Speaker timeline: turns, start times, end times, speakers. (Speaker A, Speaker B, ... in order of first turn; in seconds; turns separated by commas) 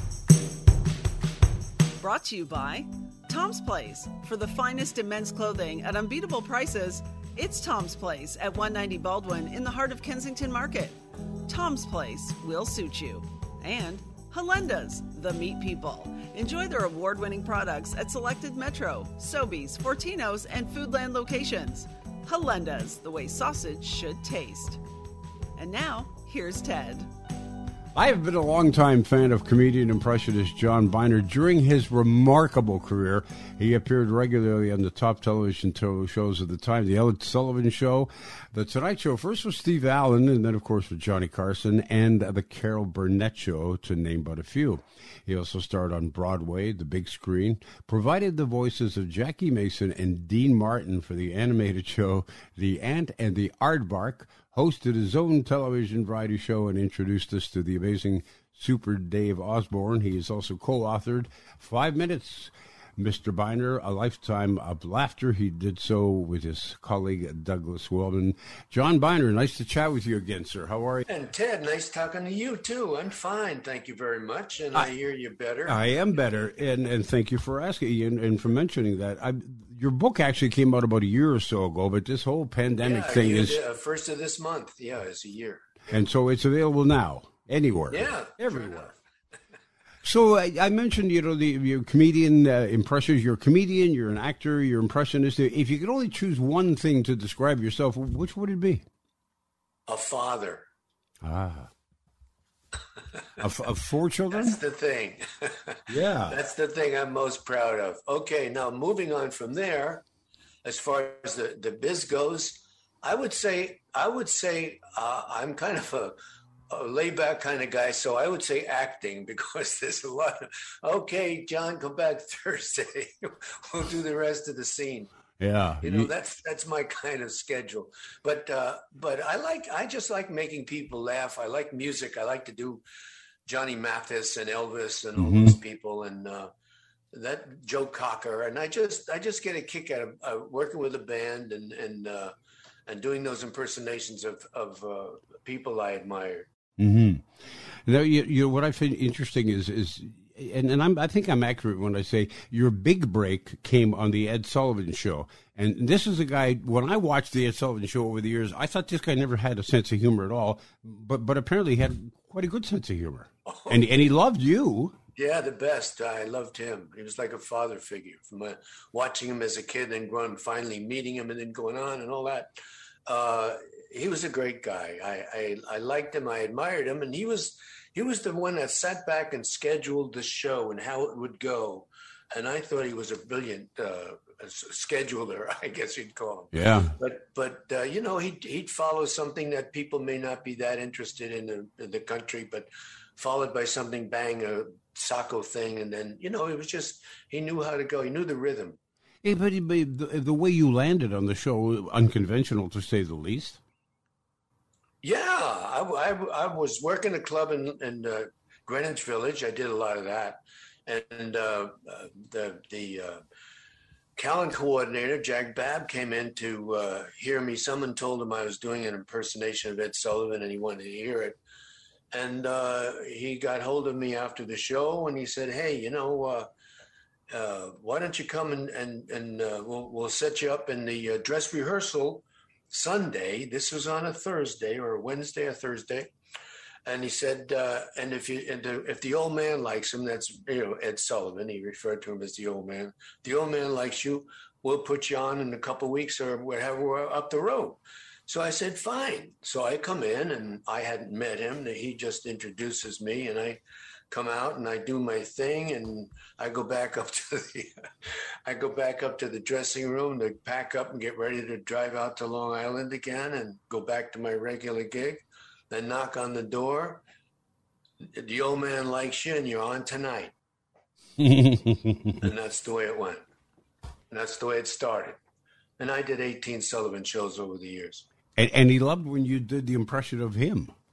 Speaker A: 2.0-11.0, Speaker A: 11.5-24.8, Speaker A: 25.6-27.1, Speaker B: 27.9-71.1, Speaker C: 71.1-75.8, Speaker B: 75.7-83.6, Speaker C: 82.8-86.0, Speaker B: 85.9-88.9, Speaker C: 87.9-88.9, Speaker B: 90.0-98.8, Speaker C: 99.9-100.7, Speaker B: 101.2-101.7, Speaker C: 103.2-103.4, Speaker B: 103.4-104.6, Speaker C: 104.3-110.0, Speaker B: 105.9-106.4, Speaker C: 110.6-116.2, Speaker C: 116.7-125.1, Speaker B: 125.4-126.1, Speaker C: 125.8-132.8, Speaker C: 133.5-136.5, Speaker B: 135.2-135.6, Speaker C: 137.1-142.3, Speaker C: 142.9-146.5, Speaker B: 146.8-147.3, Speaker B: 147.8-165.0, Speaker C: 163.5-163.9, Speaker C: 165.2-172.5, Speaker C: 173.1-198.8, Speaker B: 186.5-186.9, Speaker B: 199.2-203.6, Speaker C: 205.0-213.2, Speaker C: 214.2-221.4, Speaker C: 222.1-226.5, Speaker C: 227.3-236.1, Speaker C: 236.8-257.9, Speaker C: 258.4-267.0, Speaker C: 268.0-270.3, Speaker B: 271.2-272.3, Speaker C: 272.2-273.2, Speaker C: 274.1-275.2, Speaker C: 275.8-278.1, Speaker B: 278.4-280.7